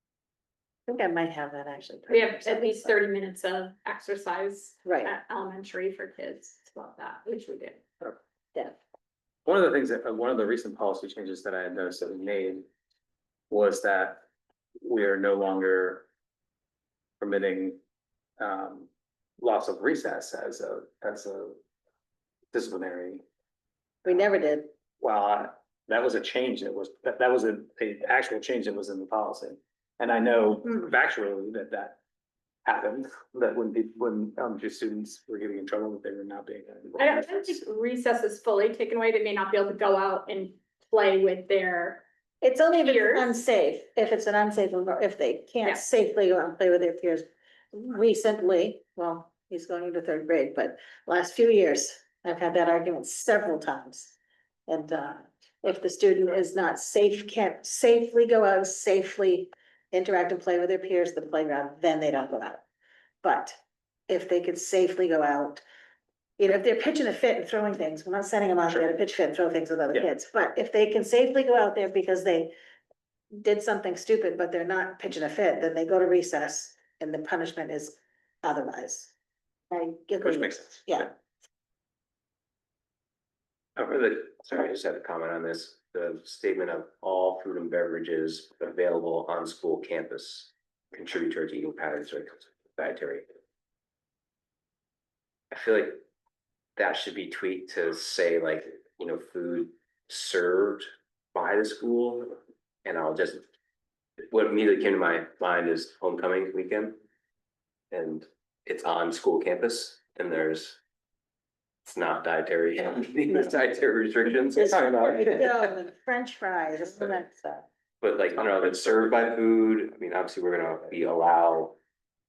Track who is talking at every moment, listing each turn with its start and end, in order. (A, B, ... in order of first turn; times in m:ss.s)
0:00.9-0:03.0 A
0:02.1-0:07.8 B
0:04.8-0:05.2 A
0:09.5-0:12.7 C
0:13.5-0:14.2 C
0:14.8-0:16.1 C
0:17.2-0:17.8 C
0:18.4-0:21.6 C
0:22.5-0:23.2 C
0:24.0-0:24.7 A
0:25.0-0:32.0 C
0:32.7-0:37.5 C
0:37.0-0:42.0 B
0:42.4-0:54.2 A
0:42.8-0:43.4 B
0:54.7-1:02.6 A
1:03.2-1:05.6 A
1:06.4-1:12.5 A
1:13.3-1:19.1 A
1:19.7-1:21.1 A
1:20.2-1:21.1 C
1:23.9-1:33.3 D
1:35.5-1:36.0 D
1:36.8-1:43.5 D
1:44.3-1:47.0 D
1:47.9-1:50.8 D
1:51.9-1:55.0 D
1:54.6-1:55.7 C
1:55.2-1:57.7 A
1:58.0-2:01.8 D